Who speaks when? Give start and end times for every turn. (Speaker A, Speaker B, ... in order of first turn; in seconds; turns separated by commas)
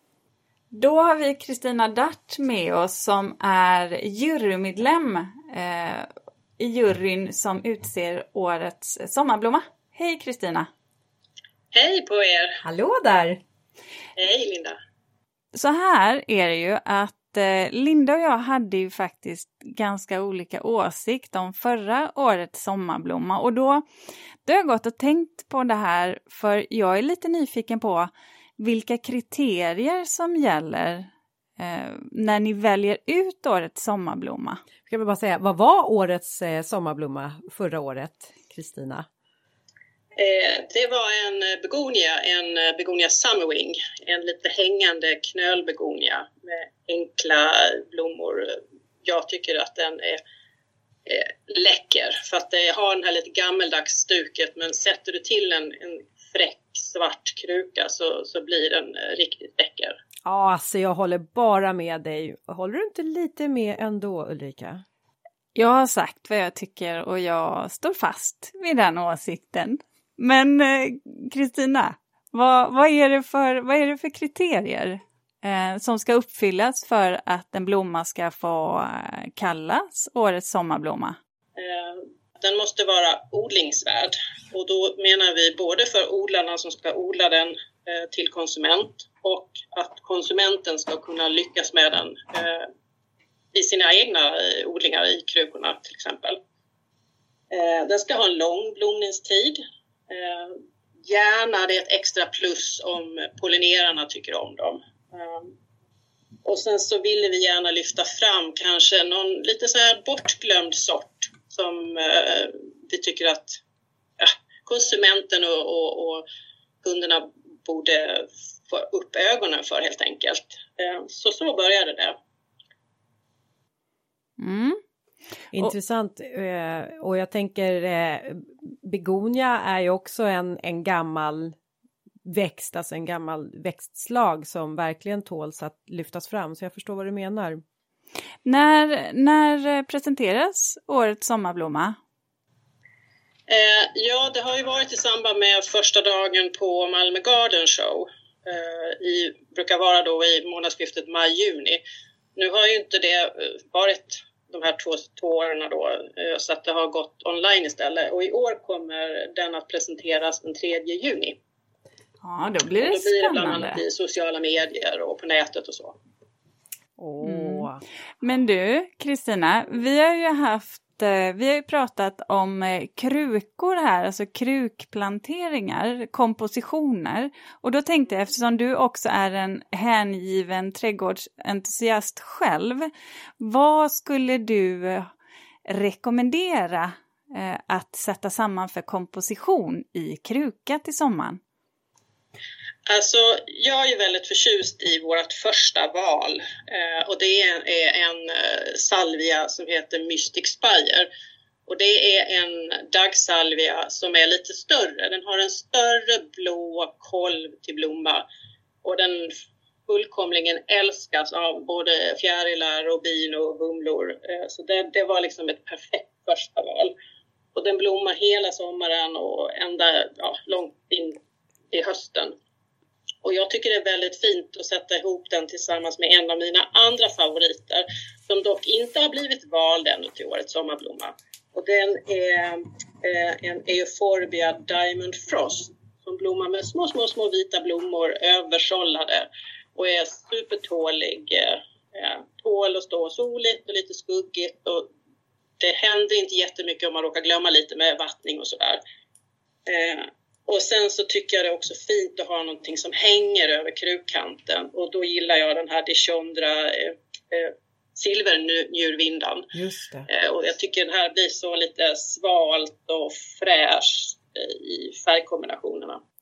Speaker A: 0.7-10.7, Speaker B: 11.7-12.6, Speaker C: 12.6-13.4, Speaker B: 14.2-14.8, Speaker A: 15.5-23.8, Speaker A: 24.4-34.6, Speaker C: 34.9-39.0, Speaker B: 40.1-50.2, Speaker B: 51.0-60.0, Speaker C: 60.2-64.8, Speaker A: 65.5-81.2, Speaker B: 81.6-92.7, Speaker B: 93.5-96.4, Speaker B: 97.5-105.5, Speaker B: 106.4-113.6, Speaker B: 114.2-116.2, Speaker B: 116.8-122.2, Speaker A: 124.4-124.8, Speaker C: 125.5-131.5, Speaker C: 132.2-137.6, Speaker A: 138.4-142.0, Speaker B: 143.5-151.8, Speaker B: 152.3-161.4, Speaker A: 162.2-163.8, Speaker B: 162.8-166.0, Speaker C: 167.0-167.8, Speaker A: 167.2-167.7, Speaker A: 168.2-185.1, Speaker A: 185.7-191.4, Speaker B: 192.9-201.1, Speaker B: 201.7-208.2, Speaker B: 208.8-209.3, Speaker B: 209.9-216.9, Speaker B: 217.5-221.2, Speaker B: 221.7-222.3, Speaker B: 223.2-244.9, Speaker B: 245.6-248.8, Speaker B: 249.7-259.5, Speaker C: 259.5-260.1, Speaker B: 260.1-266.0